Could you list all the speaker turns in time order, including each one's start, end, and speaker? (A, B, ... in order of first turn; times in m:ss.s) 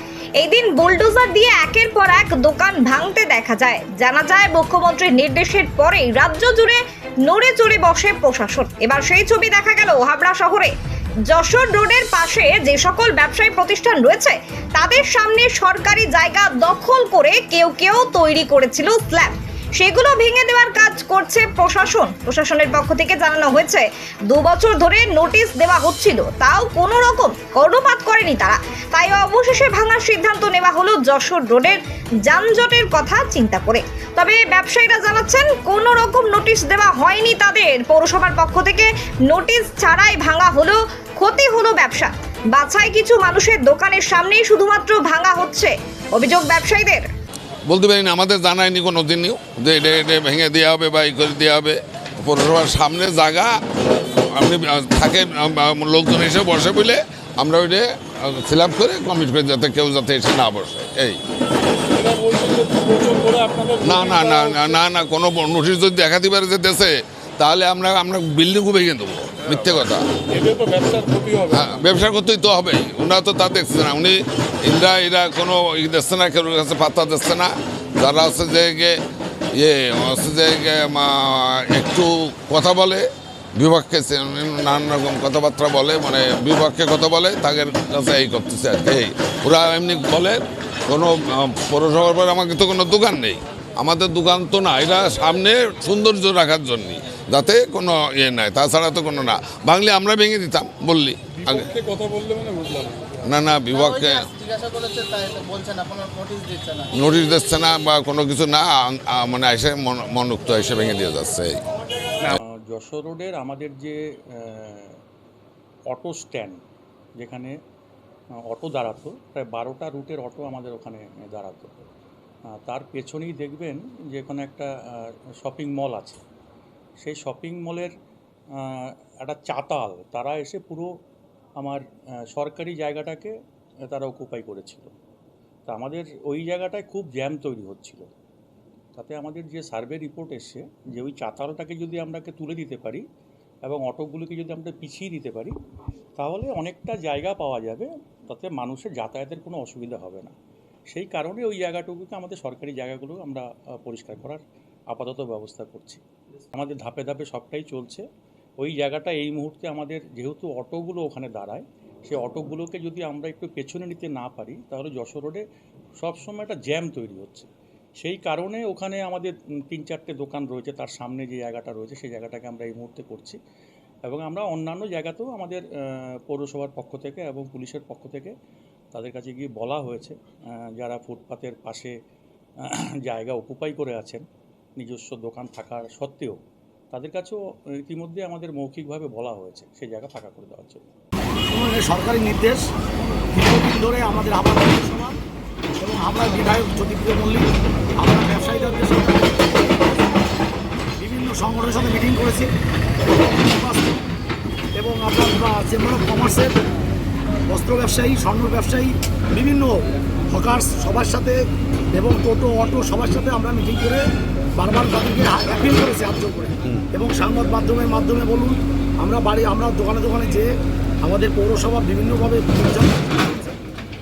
0:00.4-0:10.7 A
0:11.3-0:47.1 A
0:47.6-0:53.5 B
0:54.2-1:01.2 B
1:02.5-1:04.8 C
1:03.8-1:10.0 B
1:10.8-1:11.6 C
1:11.5-1:19.0 B
1:19.5-1:41.7 B
1:41.9-1:43.1 C
1:43.2-1:44.3 B
1:44.4-1:46.8 D
1:45.4-1:46.8 C
1:46.9-1:51.6 B
1:52.2-1:55.0 E
1:55.9-1:56.6 E
1:57.2-1:57.5 E
1:58.4-2:01.8 E
2:02.6-2:06.2 E
2:07.0-2:07.9 E
2:08.6-2:10.9 E
2:11.6-2:13.3 E
2:13.9-2:14.9 E
2:15.7-2:18.1 E
2:18.9-2:23.0 E
2:23.6-2:25.6 E
2:26.2-2:30.3 E
2:30.9-2:38.0 E
2:38.6-2:45.4 E
2:46.0-2:53.4 E
2:54.0-2:58.3 E
2:58.9-3:01.9 E
3:02.6-3:04.2 E
3:04.8-3:06.4 E
3:06.9-3:10.8 E
3:11.5-3:12.7 F
3:13.3-3:15.2 F
3:15.8-3:17.5 F
3:18.0-3:19.6 F
3:21.0-3:22.5 F
3:23.2-3:24.0 F
3:24.7-3:26.6 F
3:27.5-3:31.4 F
3:31.9-3:34.0 F
3:34.6-3:40.5 F
3:41.0-3:43.5 F